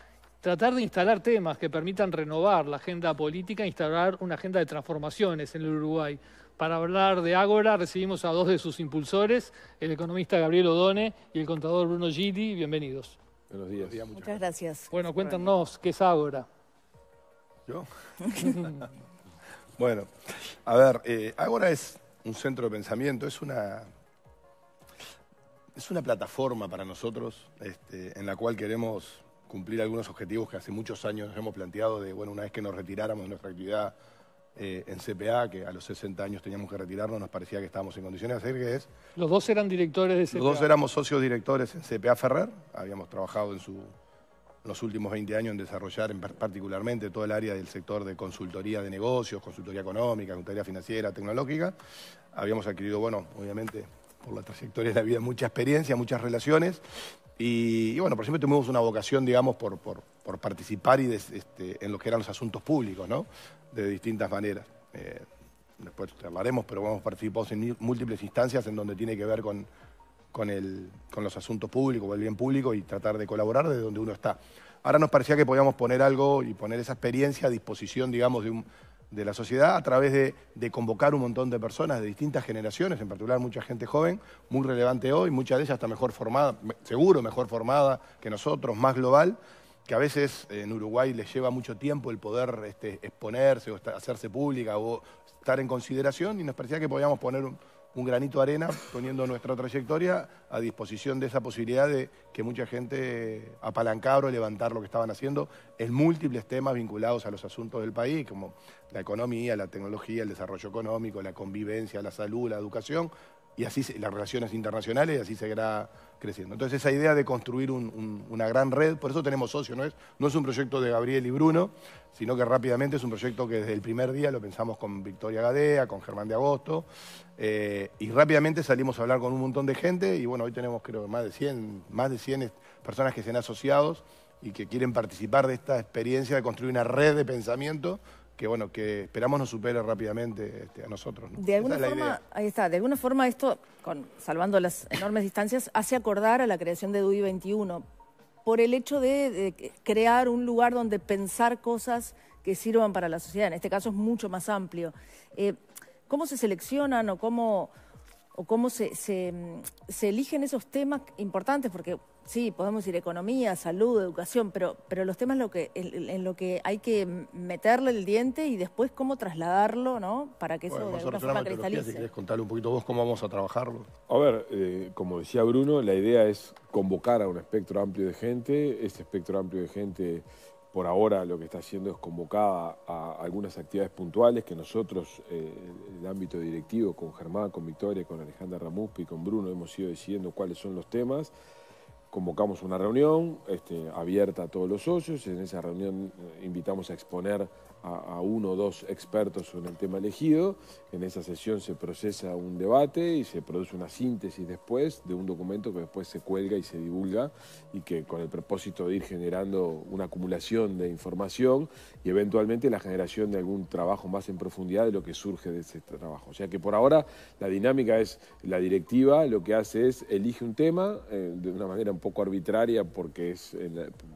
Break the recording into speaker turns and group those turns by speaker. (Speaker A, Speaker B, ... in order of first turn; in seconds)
Speaker A: 0.4-13.2, 14.9-16.5, 39.2-40.7
Speaker B: 13.5-14.0, 174.1-191.3, 192.1-223.9
Speaker C: 13.8-14.4, 17.7-18.9, 19.8-23.9, 25.8-34.0, 34.6-38.9, 40.3-43.9, 44.6-51.8, 52.3-56.8, 57.4-65.2, 65.8-69.7, 70.3-126.9, 127.4-142.2, 170.7-173.9
Speaker D: 14.2-15.5, 141.4-147.8, 148.4-155.6, 156.1-157.7, 158.3-172.1